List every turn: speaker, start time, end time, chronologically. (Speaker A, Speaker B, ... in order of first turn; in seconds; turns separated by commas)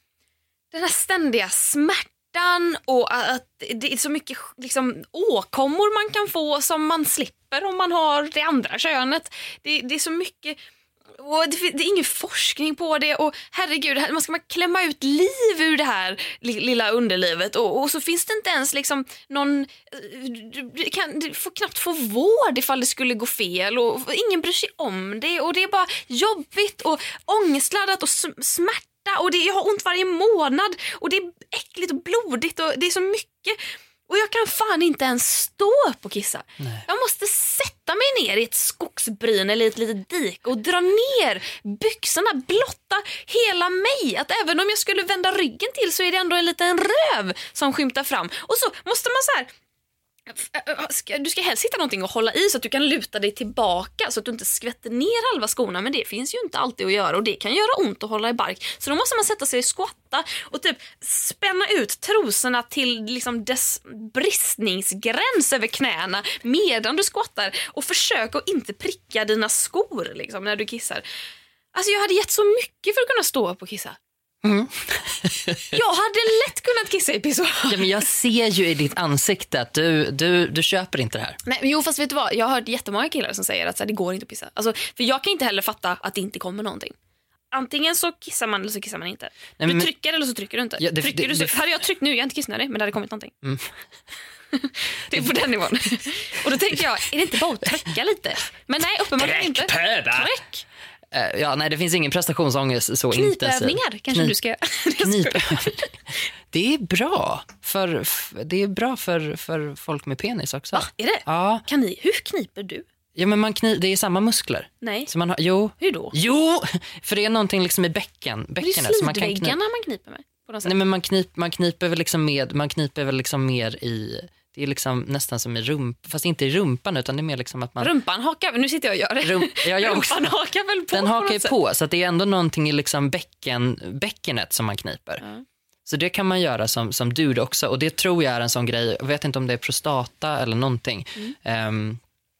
Speaker A: 0.7-10.6, Speaker A: 11.2-49.5, Speaker B: 36.6-36.8, Speaker A: 50.3-71.0, Speaker A: 71.7-74.0, Speaker B: 74.4-75.7, Speaker A: 75.7-78.0, Speaker B: 77.7-81.4, Speaker A: 81.4-86.9, Speaker A: 87.5-93.3, Speaker B: 89.6-89.9, Speaker B: 90.8-91.6, Speaker B: 93.4-93.7, Speaker A: 94.5-100.6, Speaker B: 95.1-95.5, Speaker B: 99.2-100.3, Speaker B: 101.1-104.3, Speaker A: 103.1-105.9, Speaker B: 105.0-105.8, Speaker B: 106.5-111.6, Speaker A: 110.7-112.9, Speaker B: 113.1-119.6, Speaker A: 114.8-115.1, Speaker A: 115.8-116.1, Speaker A: 118.6-120.8, Speaker B: 120.6-127.9, Speaker A: 127.8-131.5, Speaker B: 129.2-130.3, Speaker B: 130.9-135.2, Speaker B: 135.8-142.0